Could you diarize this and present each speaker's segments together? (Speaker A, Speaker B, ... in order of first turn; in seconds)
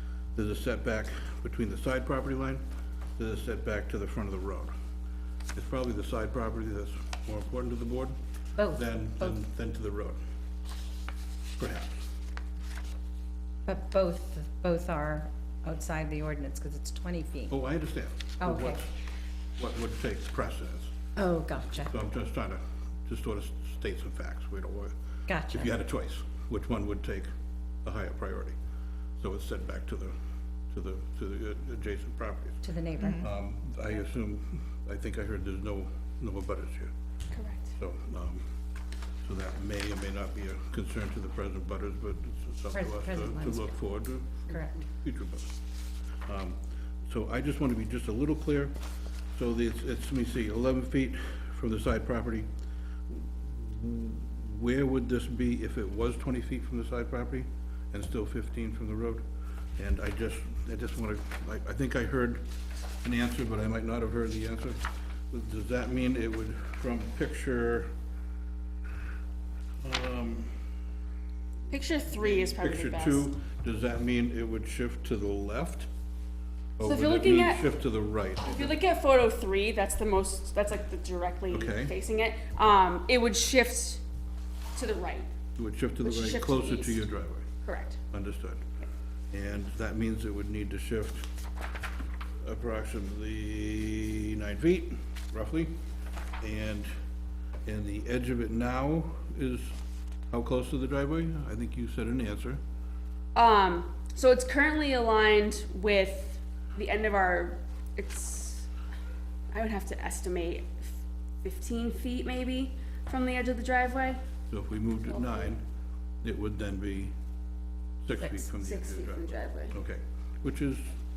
Speaker A: 0.3-2.6, 3.2-4.7, 5.5-8.2, 8.7-10.2, 11.6-12.0, 17.5-18.9, 19.6-20.9, 21.8-24.9, 25.5-27.3, 27.8-28.6, 29.2-30.1, 30.7-32.6, 33.2-36.9, 37.7-38.5, 39.2-45.5, 46.2-48.7, 49.3-52.5, 53.1-59.2, 59.8-62.4, 63.0-67.9, 69.8-70.6, 72.2-75.9, 76.8-78.7, 81.5-81.9, 85.6-87.5, 88.1-88.7, 89.3-91.3, 92.4-95.7, 96.4-96.9, 97.6-99.8, 100.3-102.6, 114.5-115.6, 116.2-117.1, 118.0-120.9
Speaker B: 8.6-9.4, 13.7-17.5, 18.4-18.8, 21.2-21.9, 25.3-25.7, 32.6-33.3, 42.7-43.9, 44.5-44.7
Speaker C: 37.3-37.7, 71.7-73.2, 76.8-77.7, 78.4-84.0, 84.8-85.3, 86.0-87.0, 87.6-88.0, 103.3-108.7, 109.5-114.2, 115.1-115.5, 118.2-119.7